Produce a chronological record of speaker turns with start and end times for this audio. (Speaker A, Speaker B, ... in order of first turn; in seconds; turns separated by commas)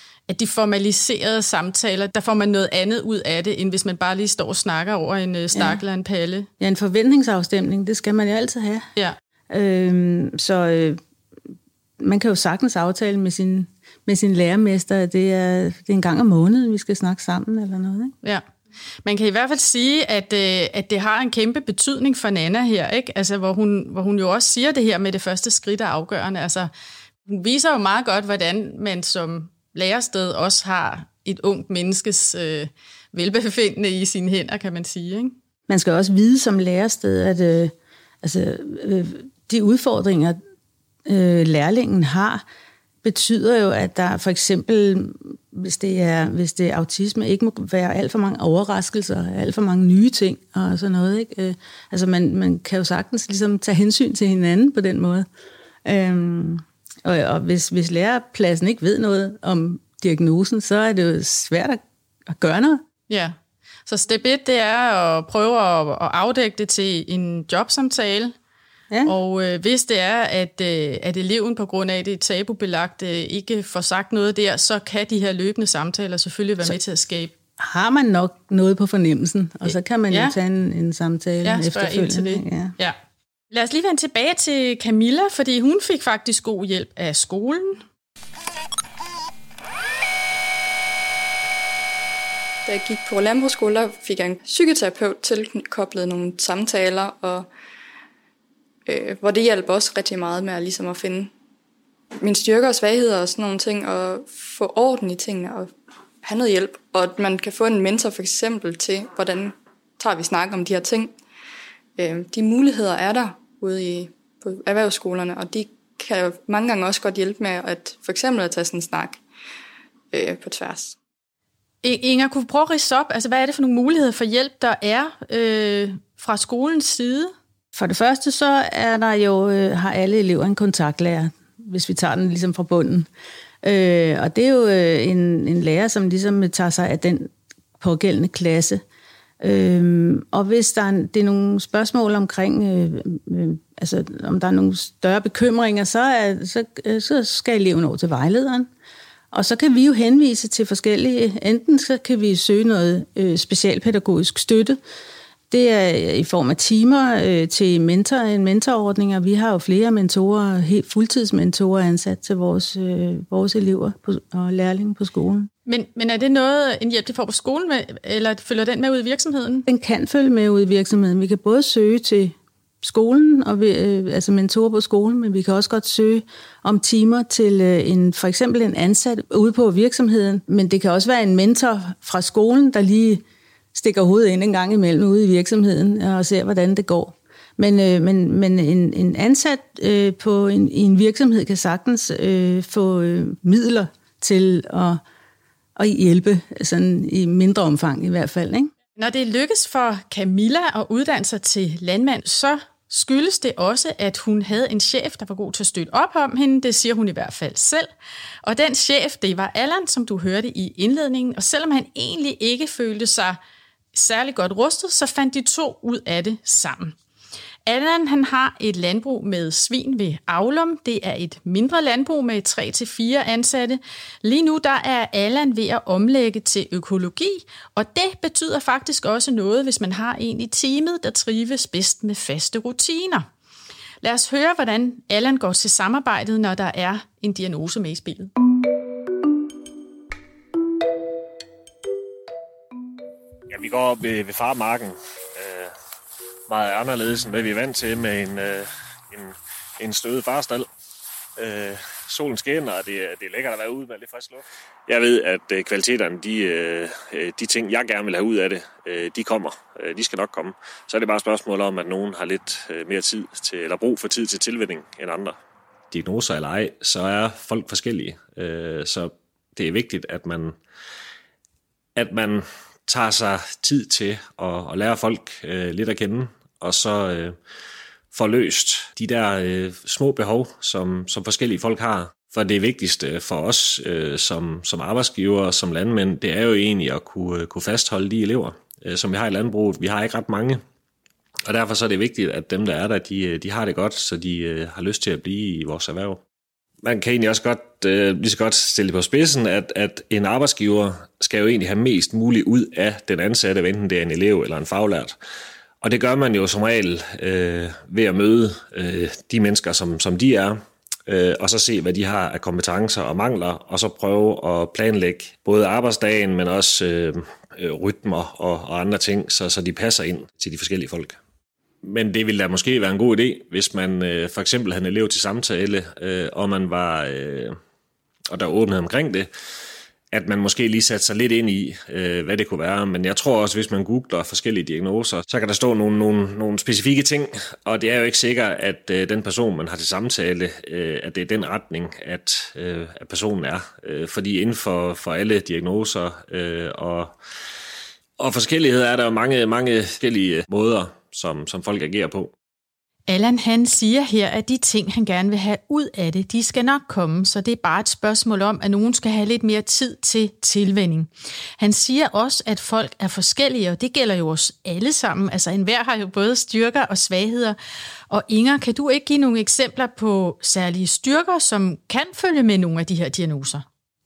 Speaker A: 0.3-6.5, Speaker B: 5.5-5.8, Speaker B: 6.6-8.8, Speaker B: 9.5-11.0, Speaker B: 12.0-18.1, Speaker A: 19.0-26.7, Speaker A: 27.2-35.3, Speaker B: 35.7-37.7, Speaker B: 38.2-40.4, Speaker B: 41.0-42.4, Speaker B: 43.0-55.2, Speaker B: 55.8-62.8, Speaker A: 63.1-63.3, Speaker A: 63.9-68.3, Speaker A: 69.0-77.3, Speaker B: 77.6-82.7, Speaker A: 79.7-80.3, Speaker A: 81.4-82.9, Speaker A: 83.5-87.8, Speaker C: 92.7-97.5, Speaker C: 98.9-101.3, Speaker C: 102.2-105.7, Speaker C: 106.2-111.1, Speaker C: 112.0-119.2, Speaker C: 120.1-121.0, Speaker A: 121.8-127.3, Speaker B: 127.7-133.1, Speaker B: 133.6-137.3, Speaker B: 137.8-138.8, Speaker B: 139.4-148.7, Speaker B: 149.3-154.8, Speaker B: 155.5-165.5, Speaker A: 165.7-169.7, Speaker B: 169.7-183.2, Speaker B: 183.7-195.0, Speaker B: 195.8-198.7, Speaker A: 198.9-207.9, Speaker A: 208.4-213.4, Speaker A: 213.9-216.9, Speaker A: 217.7-233.2, Speaker A: 234.0-238.3, Speaker D: 243.5-245.7, Speaker D: 246.5-250.7, Speaker D: 251.4-265.4, Speaker D: 265.9-270.5, Speaker D: 271.9-277.3, Speaker D: 278.1-290.6, Speaker D: 291.5-296.2, Speaker D: 296.8-305.1, Speaker D: 305.8-321.2, Speaker D: 321.8-327.5, Speaker D: 328.3-329.3, Speaker D: 330.1-347.1, Speaker D: 348.2-352.3, Speaker A: 353.1-367.6, Speaker A: 368.1-373.6